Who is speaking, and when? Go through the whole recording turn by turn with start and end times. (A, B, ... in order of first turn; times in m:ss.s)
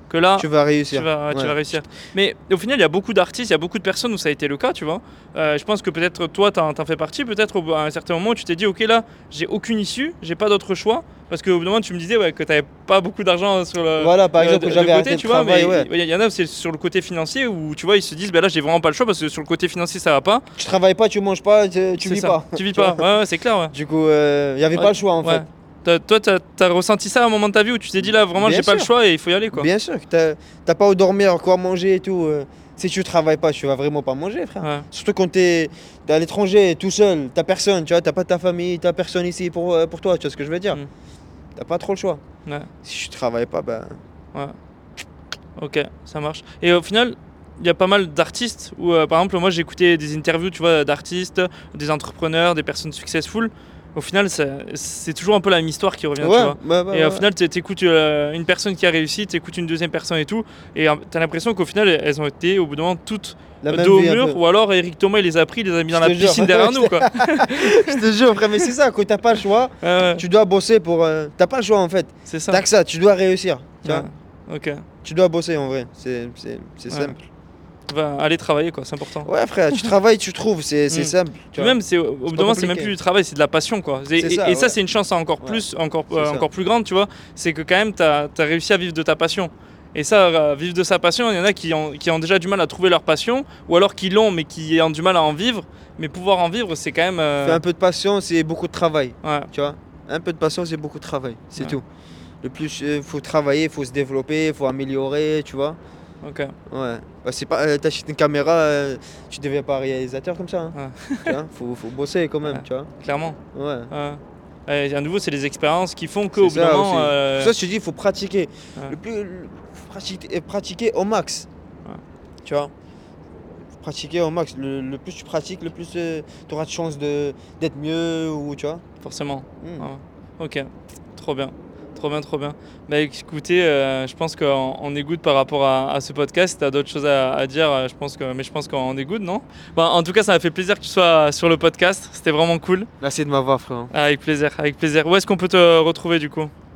0:00.1-0:20.5 A
0:00.4-0:01.6 B
0:14.0-0:15.9 B
0:20.6-0:23.1 B
0:22.0-0:23.7 A
0:23.7-0:25.4 B
0:24.7-0:29.7 A
0:28.0-0:28.9 B
0:29.5-0:40.8 B
0:34.6-0:34.9 A
0:41.6-0:42.2 B
0:42.8-0:44.0 B
0:45.6-1:08.7 A
0:56.2-0:57.3 B
1:03.6-1:04.4 B
1:05.9-1:14.1 B
1:09.8-1:10.2 A
1:12.3-1:12.6 A
1:13.8-1:14.8 A
1:15.0-1:17.2 B
1:17.9-1:19.9 A
1:19.2-1:21.8 B
1:20.9-1:37.6 A
1:22.3-1:22.9 B
1:24.2-1:24.8 B
1:25.4-1:26.5 B
1:37.4-1:41.8 B
1:39.2-1:39.5 A
1:42.4-1:45.8 B
1:46.2-1:46.5 A
1:46.7-1:52.9 B
1:50.7-1:51.4 A
1:52.4-1:53.4 A
1:53.5-1:53.9 B
1:53.9-1:57.5 A
1:56.3-2:01.5 B
2:02.4-2:02.7 B
2:03.8-2:08.8 B
2:09.0-2:22.9 A
2:09.6-2:09.9 B
2:23.0-2:23.9 B
2:23.9-2:26.5 A